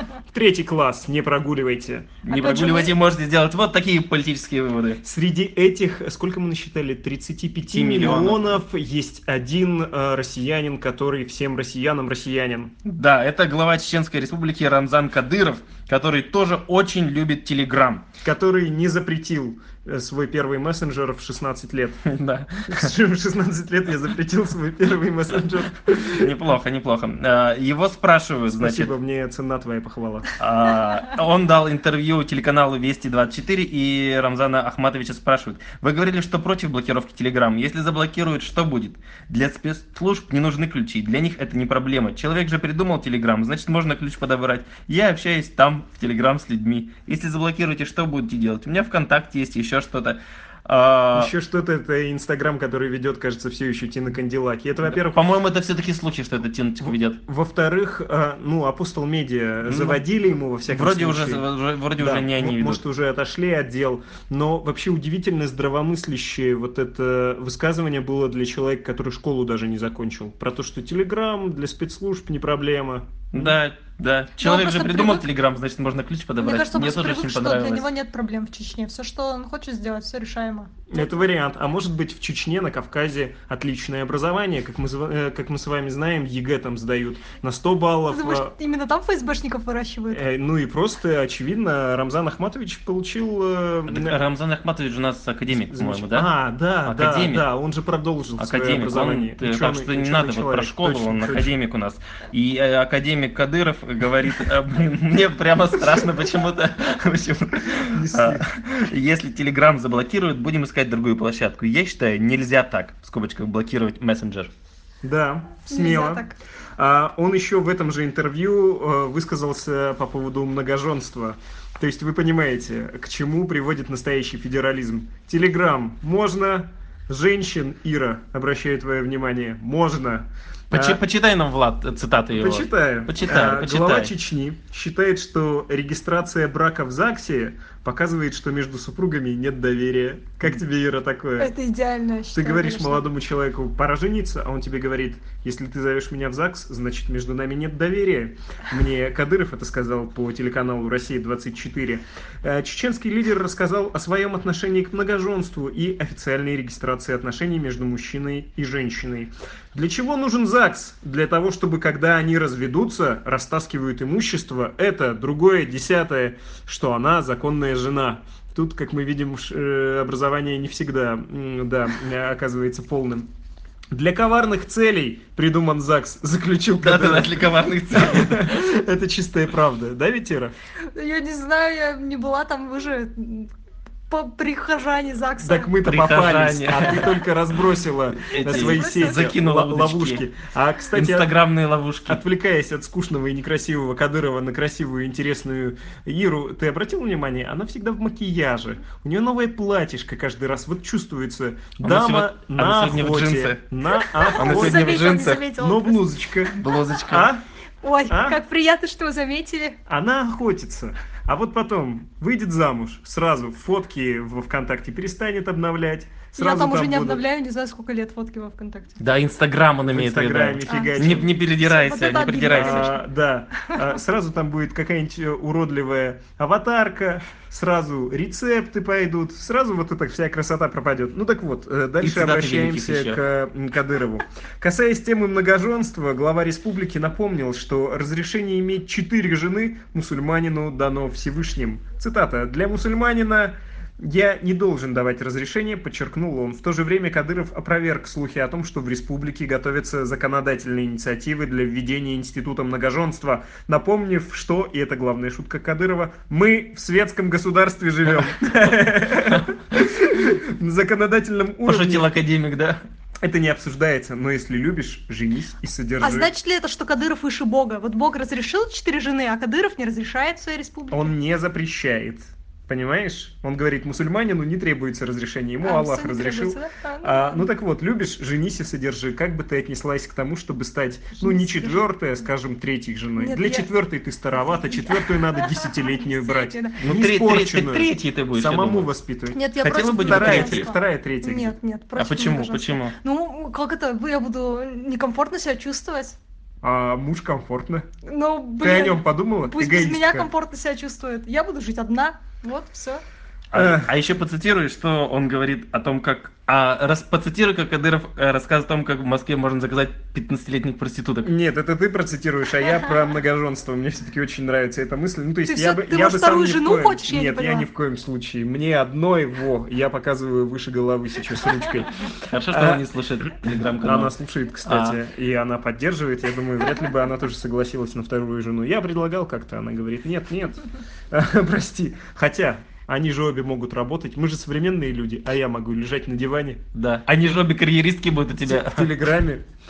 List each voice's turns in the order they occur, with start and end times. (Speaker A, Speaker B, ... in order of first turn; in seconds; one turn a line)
Speaker A: 0.3-2.2
Speaker B: 2.2-5.0
Speaker C: 2.3-3.0
Speaker A: 5.0-12.7
Speaker B: 7.7-8.6
Speaker B: 12.8-18.0
Speaker A: 18.2-22.0
Speaker B: 22.1-22.9
Speaker A: 22.7-26.4
Speaker B: 26.1-28.9
Speaker A: 28.5-30.3
Speaker B: 30.4-51.3
Speaker A: 51.1-55.2
Speaker B: 54.9-57.2
Speaker A: 56.8-61.5
Speaker B: 59.7-60.0
Speaker B: 60.7-62.8
Speaker A: 62.0-73.6
Speaker B: 73.3-77.9
Speaker C: 74.4-75.3
Speaker C: 76.4-81.0
Speaker A: 80.9-88.5
Speaker C: 88.1-90.2
Speaker A: 90.1-94.2
Speaker B: 93.9-96.3
Speaker A: 95.5-101.5
Speaker B: 96.8-97.5
Speaker B: 98.4-114.5
Speaker A: 107.8-108.5
Speaker A: 115.0-116.2
Speaker C: 115.7-116.4
Speaker A: 116.8-131.0
Speaker B: 130.7-134.1
Speaker A: 132.3-141.5
Speaker C: 141.4-143.0
Speaker A: 142.3-173.3
Speaker A: 173.9-180.5
Speaker B: 176.8-178.6
Speaker C: 180.9-183.5
Speaker C: 184.1-185.7
Speaker A: 185.4-191.3
Speaker B: 185.8-187.1
Speaker B: 188.3-190.2
Speaker C: 188.3-189.3
Speaker B: 190.9-192.2
Speaker A: 192.1-207.4
Speaker B: 201.8-203.6
Speaker C: 204.0-206.0
Speaker B: 204.4-205.4
Speaker B: 206.6-207.3
Speaker C: 207.8-209.8
Speaker A: 208.1-208.4
Speaker A: 209.9-217.2
Speaker C: 216.4-219.0
Speaker B: 219.0-222.9
Speaker A: 219.9-221.4
Speaker C: 220.7-223.0
Speaker A: 222.5-262.1
Speaker B: 232.0-233.2
Speaker B: 261.6-262.8
Speaker A: 263.2-266.3
Speaker C: 266.0-271.1
Speaker A: 270.9-291.6
Speaker C: 275.6-277.5
Speaker C: 281.2-281.9
Speaker C: 283.2-283.7
Speaker C: 284.5-286.8
Speaker B: 286.8-288.9
Speaker C: 289.3-296.2
Speaker B: 289.6-290.7
Speaker B: 292.0-292.9
Speaker A: 296.6-297.9
Speaker C: 298.1-303.0
Speaker A: 298.6-300.3
Speaker B: 303.5-311.3
Speaker A: 303.5-303.9
Speaker A: 311.2-322.8
Speaker C: 315.5-317.7
Speaker B: 322.3-324.1
Speaker A: 323.5-336.6
Speaker B: 324.6-325.0
Speaker B: 336.7-338.9
Speaker A: 338.4-339.4